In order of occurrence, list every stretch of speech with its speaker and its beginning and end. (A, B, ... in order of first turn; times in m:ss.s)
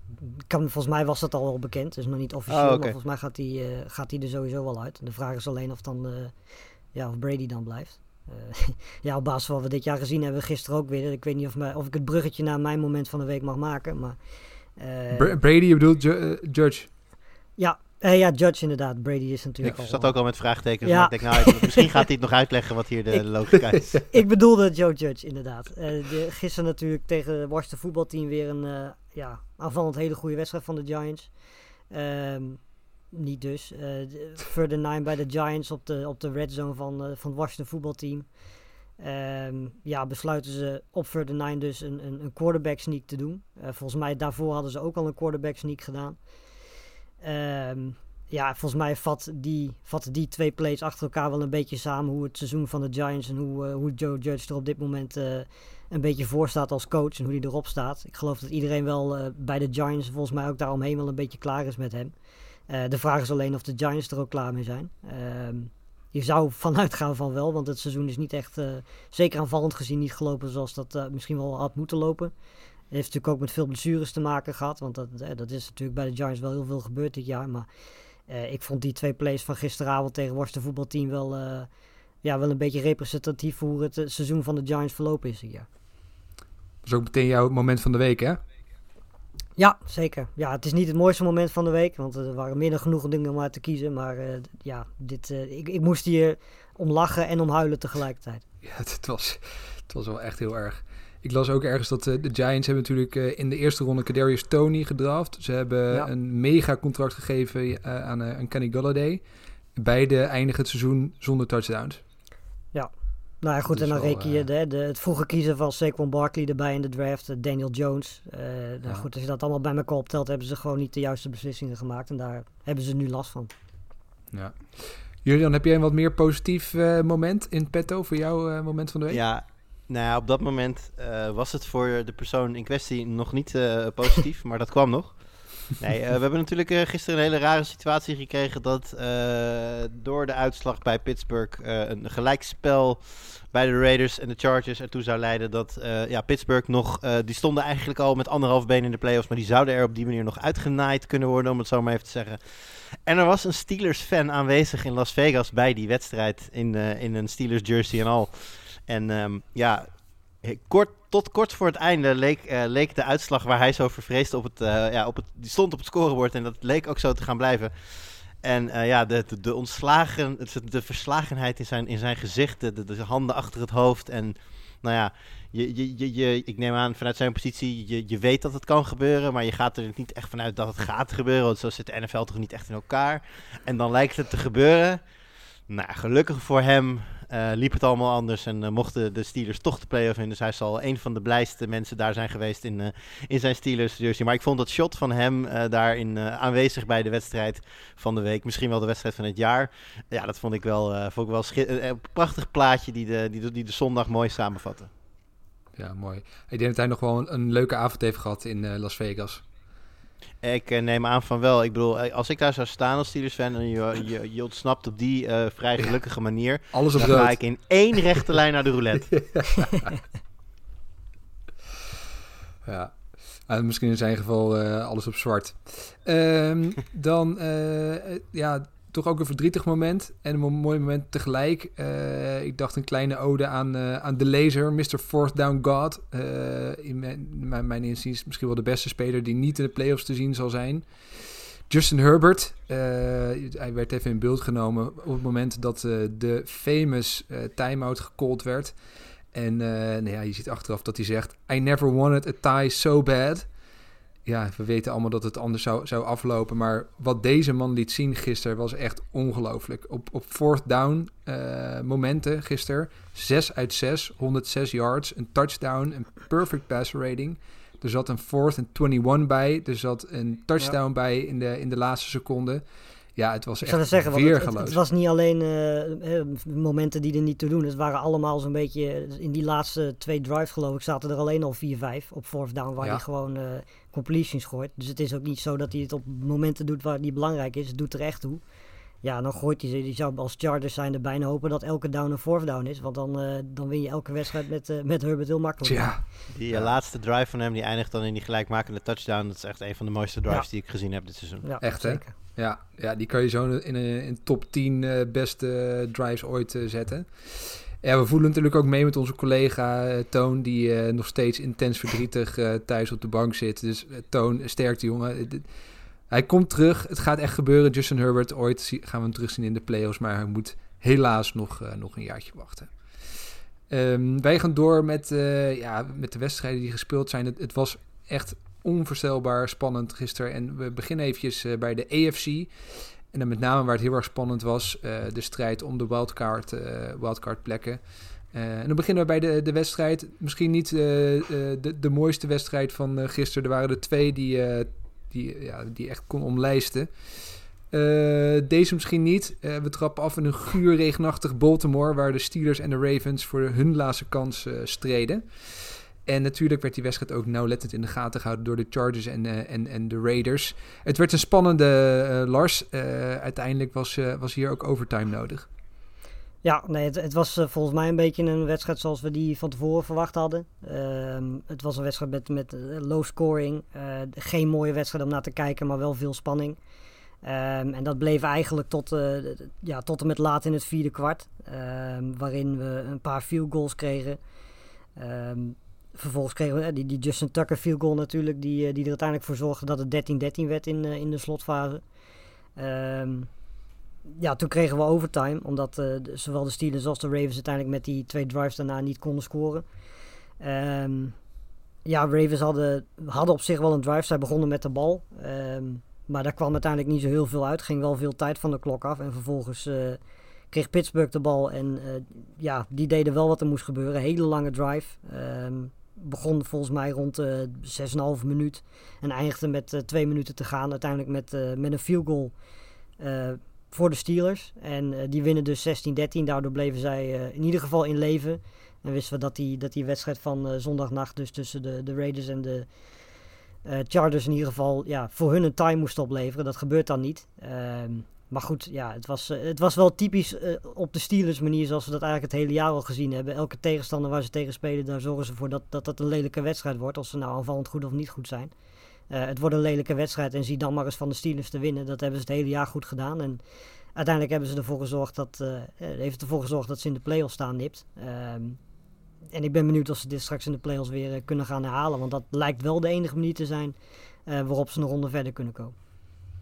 0:00.2-0:06.4 A
0:02.5-0:02.9 B
0:06.9-0:14.2 A
0:14.8-0:15.4 A
0:15.1-0:16.9 C
0:17.6-0:20.2 A
0:19.6-0:24.0 B
0:20.8-0:21.9 A
0:23.7-0:24.0 C
0:24.1-0:38.4 A
0:39.0-0:46.2 A
0:47.2-1:02.1 A
1:02.7-1:12.3 A
1:12.9-1:17.7 A
1:18.3-1:21.7 A
1:22.2-1:25.7 A
1:26.8-1:28.4 C
1:29.6-1:38.4 A
1:38.6-1:49.2 C
1:49.8-1:52.0 C
1:53.4-2:03.5 A
1:53.7-1:54.5 C
2:04.3-2:09.2 C
2:09.1-2:39.9 B
2:40.4-3:05.0 B
3:05.7-3:24.9 B
3:25.8-3:29.4 C
3:30.4-3:39.1 B
3:36.7-3:37.4 C
3:39.1-3:40.0 C
3:42.6-4:08.8 C
4:09.3-4:13.5 C
4:14.2-4:32.6 C
4:33.2-4:34.8 C
4:33.6-4:48.4 A
4:49.0-4:56.0 A
4:55.6-4:56.7 C
4:56.3-5:01.4 B
5:01.4-5:02.1 A
5:01.6-5:15.5 C
5:16.1-5:22.7 C
5:23.7-5:32.5 C
5:33.1-6:05.5 C
6:06.4-6:16.6 A
6:17.2-6:24.2 A
6:25.0-6:31.8 A
6:32.6-6:33.3 A
6:34.0-6:39.6 A
6:40.4-6:41.2 A
6:41.8-6:50.0 A
6:50.5-7:02.3 A
7:03.0-7:12.7 A
7:13.6-7:28.5 A
7:29.1-7:33.4 A
7:34.0-7:38.6 A
7:39.3-7:45.7 A